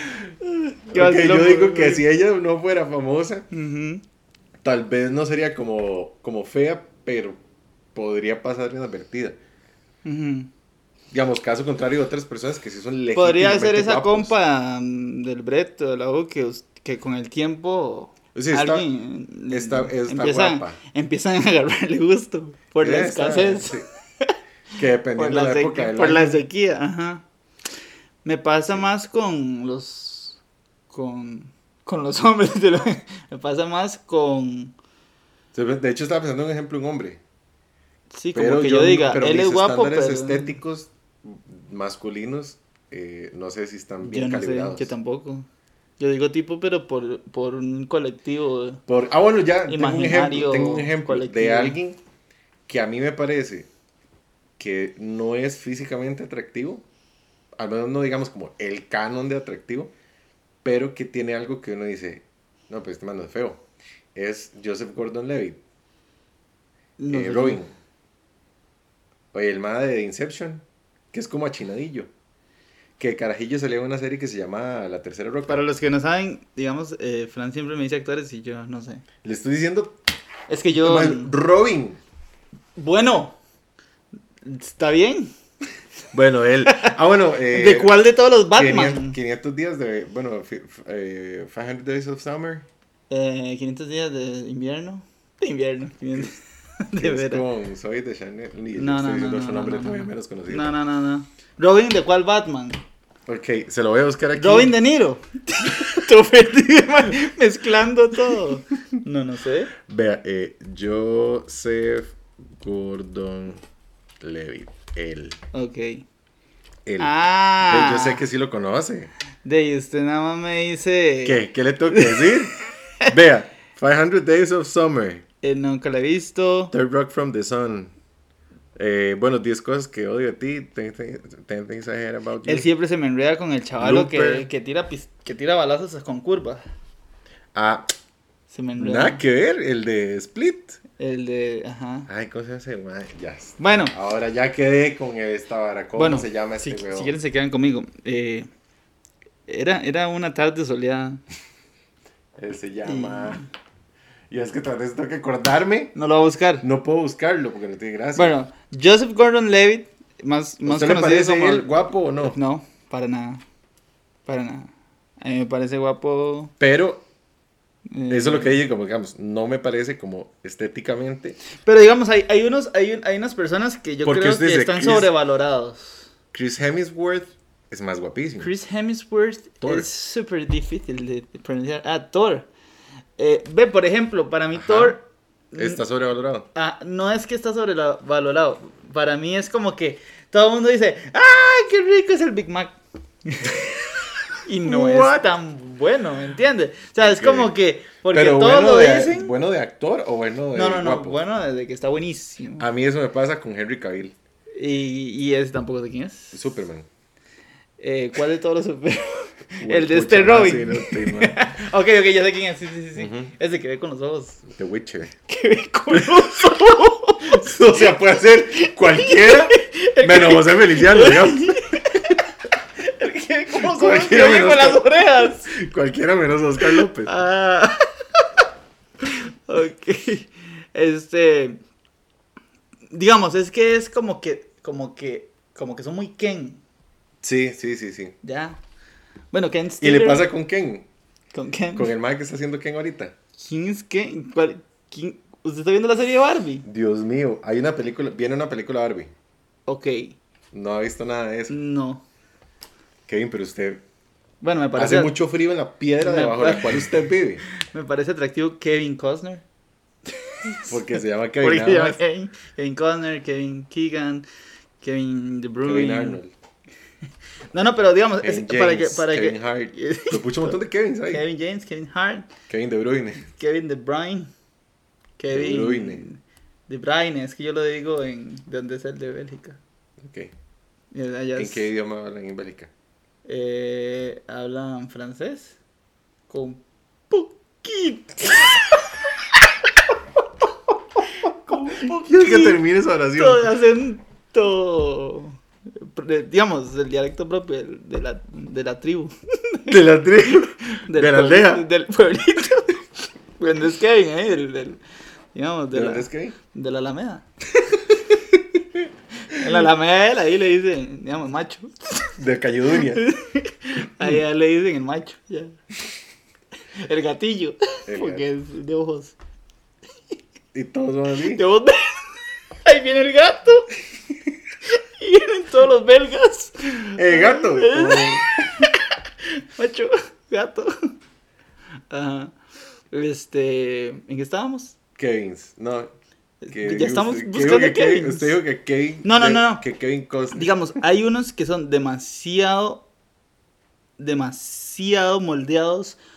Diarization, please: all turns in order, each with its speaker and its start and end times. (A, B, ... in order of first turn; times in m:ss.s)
0:00.4-0:02.0 A
0:00.9-0:03.5 B
0:03.5-0:04.0 A
0:04.6-0:07.4 B
0:07.9-0:09.4 B
0:10.0-0:10.5 A
0:11.1-0:14.3 B
0:13.1-0:24.3 A
0:18.3-0:18.9 B
0:19.5-0:20.8 B
0:22.8-0:23.9 B
0:24.8-0:26.4 B
0:25.1-0:27.2 A
0:28.2-0:30.4 A
0:30.9-0:34.7 A
0:35.5-0:37.2 B
0:38.1-0:40.6 A
0:38.3-0:44.9 B
0:44.0-0:45.5 A
0:46.0-0:48.8 A
0:48.9-0:52.0 B
0:49.7-0:51.8 A
0:52.7-0:53.7 B
0:54.6-0:56.8 B
0:57.6-0:59.9 B
1:00.6-1:05.6 B
1:07.0-1:07.6 A
1:07.1-1:07.7 B
1:09.3-1:12.1 B
1:13.0-1:15.6 B
1:15.5-1:19.0 A
1:19.2-1:20.0 B
1:20.5-1:21.3 A
1:20.7-1:22.0 B
1:22.8-1:23.4 A
1:24.4-1:25.3 A
1:26.1-1:28.0 B
1:26.7-1:27.0 A
1:27.5-1:29.2 A
1:28.5-1:32.7 B
1:33.1-1:37.4 A
1:37.0-1:40.8 B
1:38.7-1:42.8 A
1:43.3-1:44.8 B
1:44.3-1:49.7 A
1:49.8-1:53.6 B
1:54.2-1:55.4 B
1:55.5-1:56.0 A
1:56.8-1:59.1 B
1:57.0-1:58.2 A
1:59.4-2:02.4 A
2:01.2-2:02.5 B
2:03.0-2:05.2 B
2:05.4-2:06.7 A
2:06.7-2:07.9 B
2:08.8-2:12.7 B
2:12.4-2:16.6 A
2:13.8-2:14.5 B
2:17.5-2:17.9 B
2:18.5-2:19.2 A
2:18.8-2:20.8 B
2:21.0-2:22.1 A
2:22.1-2:27.1 B
2:23.6-2:23.9 A
2:26.0-2:28.5 A
2:29.5-2:31.2 A
2:32.4-2:33.4 B
2:32.8-2:33.5 A
2:34.3-2:35.9 B
2:35.9-2:36.6 A
2:36.6-2:38.3 B
2:38.2-2:41.7 A
2:40.6-2:42.4 B
2:42.2-2:43.4 A
2:44.2-2:46.5 A
2:46.6-2:47.0 B
2:47.9-2:48.6 A
2:48.1-2:51.4 B
2:51.6-2:56.1 A
2:54.0-2:55.1 B
2:56.3-2:58.5 B
2:58.4-3:02.5 A
2:59.6-2:59.9 B
3:03.2-3:05.8 A
3:04.5-3:05.0 B
3:05.5-3:06.5 B
3:06.5-3:13.6 A
3:14.4-3:19.3 A
3:14.6-3:15.2 B
3:17.0-3:17.6 B
3:18.1-3:21.2 B
3:20.5-3:22.7 A
3:22.6-3:24.1 B
3:24.6-3:26.4 A
3:26.3-3:26.9 B
3:27.8-3:34.4 A
3:29.6-3:31.5 B
3:33.0-3:33.3 B
3:34.5-3:35.1 B
3:35.3-3:37.9 A
3:35.9-3:41.6 B
3:38.5-3:42.2 A
3:42.8-3:45.5 A
3:43.5-3:47.1 B
3:46.6-3:47.8 A
3:49.0-3:51.6 A
3:52.9-3:56.6 A
3:57.2-3:58.2 B
3:58.2-3:58.6 A
3:59.3-4:00.3 A
3:59.8-4:00.9 B
4:01.3-4:01.9 A
4:01.7-4:03.1 B
4:03.4-4:06.6 A
4:06.6-4:09.1 B
4:09.7-4:10.2 A
4:10.5-4:11.5 B
4:11.5-4:12.0 A
4:13.1-4:13.8 B
4:14.4-4:15.2 A
4:14.7-4:17.4 B
4:16.0-4:16.9 A
4:17.4-4:19.4 A
4:20.1-4:24.2 A
4:20.7-4:22.0 B
4:24.8-4:26.2 A
4:25.6-4:26.3 B
4:27.5-4:30.6 A
4:28.2-4:31.2 B
4:31.1-4:32.3 A
4:32.5-4:33.3 B
4:33.3-4:34.3 A
4:35.2-4:39.6 A
4:35.3-4:36.1 B
4:40.0-4:40.3 B
4:40.9-4:41.7 A
4:41.4-4:42.7 B
4:43.2-4:45.6 A
4:46.3-4:49.0 A
4:51.5-4:52.6 A
4:51.5-4:53.5 B
4:53.1-4:59.8 A
4:59.7-5:01.6 B
5:00.3-5:02.8 A
5:03.4-5:04.8 A
5:05.3-5:07.2 A
5:05.7-5:06.4 B
5:09.3-5:12.1 A
5:09.3-5:09.6 B
5:12.2-5:13.0 B
5:12.7-5:15.6 A
5:16.8-5:19.2 A
5:17.9-5:18.2 B
5:20.5-5:21.4 B
5:21.3-5:23.7 A
5:24.7-5:30.9 A
5:27.0-5:28.3 B
5:31.9-5:32.3 A
5:32.9-5:34.8 A
5:35.0-5:35.9 B
5:36.4-5:38.4 A
5:36.5-5:40.5 B
5:39.0-5:39.6 A
5:40.3-5:42.8 A
5:44.0-5:46.0 A